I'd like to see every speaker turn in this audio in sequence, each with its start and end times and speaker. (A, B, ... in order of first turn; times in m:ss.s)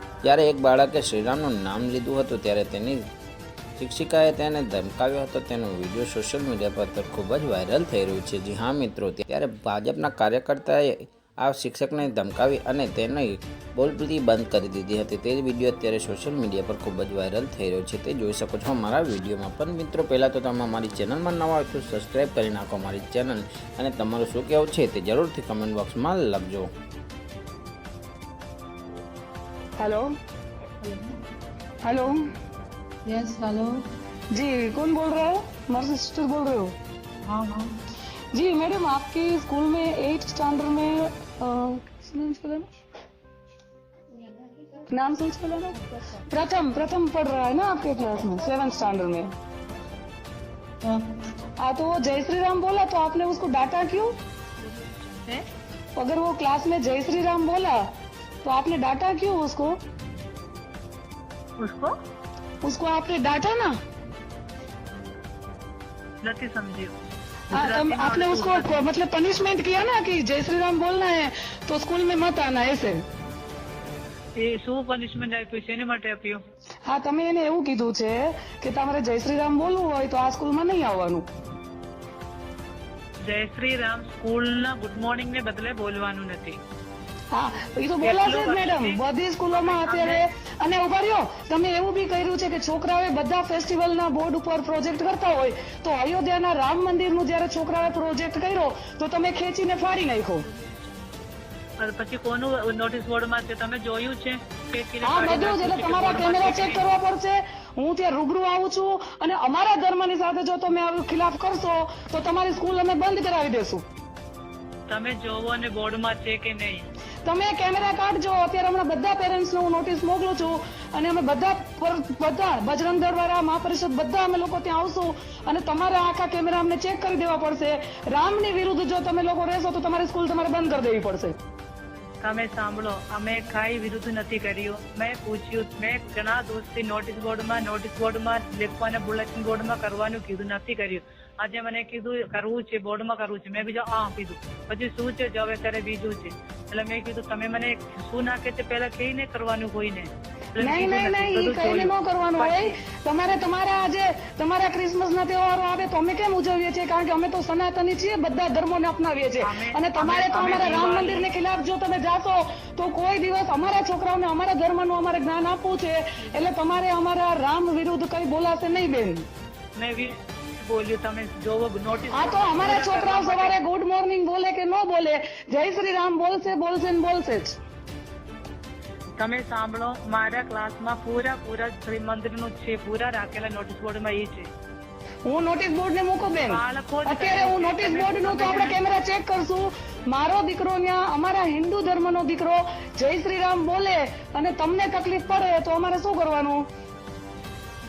0:00.2-0:03.0 A
0:03.8-0:26.7 A
0:29.8-0:30.1 B
0:30.8-0:31.1 C
0:31.8-0:32.2 B
0:33.1-0:33.8 C
0:34.3-0:36.7 B
0:37.2-0:37.7 C
0:38.3-0:42.7 B
0:44.7-0:49.3 B
0:51.6-0:54.2 B
0:54.8-0:55.4 C
0:56.0-0:57.8 B
0:58.4-0:59.8 B
1:01.6-1:01.9 C
1:02.6-1:03.7 B
1:06.2-1:06.9 C
1:07.5-1:08.8 C
1:07.5-1:13.0 B
1:14.4-1:16.4 C
1:16.8-1:21.2 B
1:23.2-1:26.6 C
1:27.3-1:40.5 B
1:28.0-1:29.0 C
1:29.5-1:30.2 C
1:41.8-1:46.8 C
1:45.0-1:53.8 B
1:54.9-1:56.9 C
1:57.2-2:11.4 B
2:12.2-2:32.8 C
2:30.6-2:49.2 B
2:39.4-2:41.3 C
2:49.7-2:53.6 C
2:52.1-2:57.6 B
2:59.2-3:04.5 C
3:05.2-3:16.6 B
3:06.5-3:08.8 C